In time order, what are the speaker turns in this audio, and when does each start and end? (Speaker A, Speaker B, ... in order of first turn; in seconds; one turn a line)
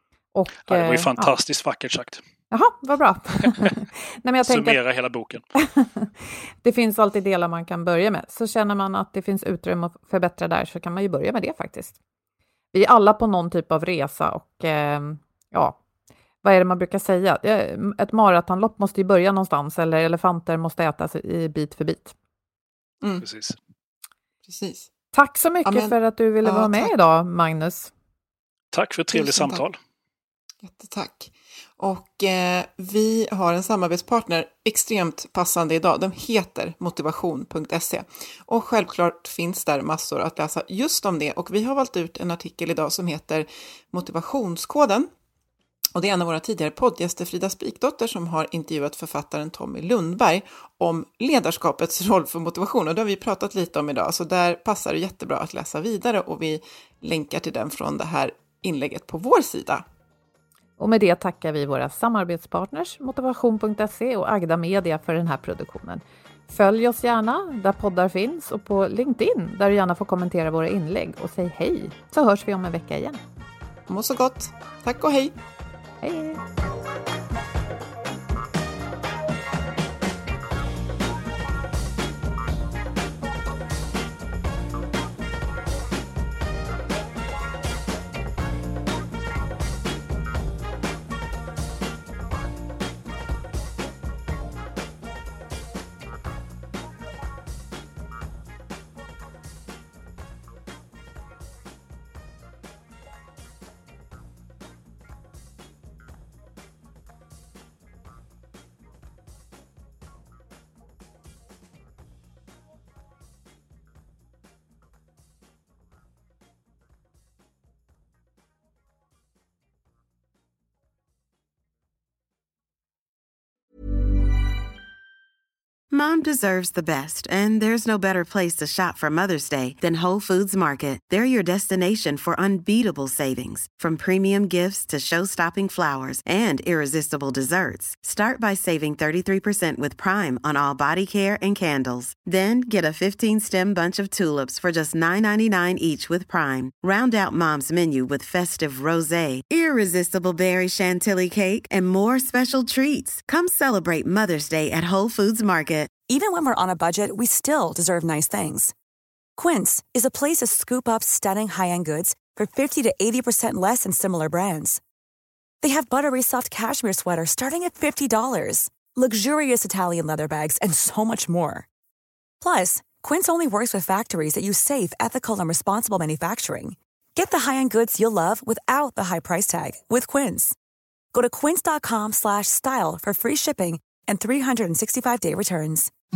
Speaker A: 0.3-1.3
Speaker B: 0.7-2.2
Speaker A: 2.5-4.8
Speaker B: 4.4-5.4
Speaker A: 5.6-6.1
Speaker A: 6.6-11.9
Speaker A: 12.7-15.8
Speaker A: 16.4-22.1
Speaker B: 23.2-23.6
Speaker C: 24.5-24.9
Speaker A: 25.1-27.9
Speaker C: 25.6-25.9
Speaker C: 26.4-26.9
Speaker B: 28.7-29.8
Speaker C: 29.1-29.6
Speaker C: 30.6-45.1
Speaker C: 45.9-59.8
Speaker A: 60.8-73.2
Speaker C: 73.9-75.3
Speaker A: 76.0-76.4
Speaker D: 125.9-156.0
Speaker E: 156.0-158.7
Speaker E: 159.4-164.8
Speaker E: 165.6-171.7
Speaker E: 172.4-180.6
Speaker E: 181.1-185.9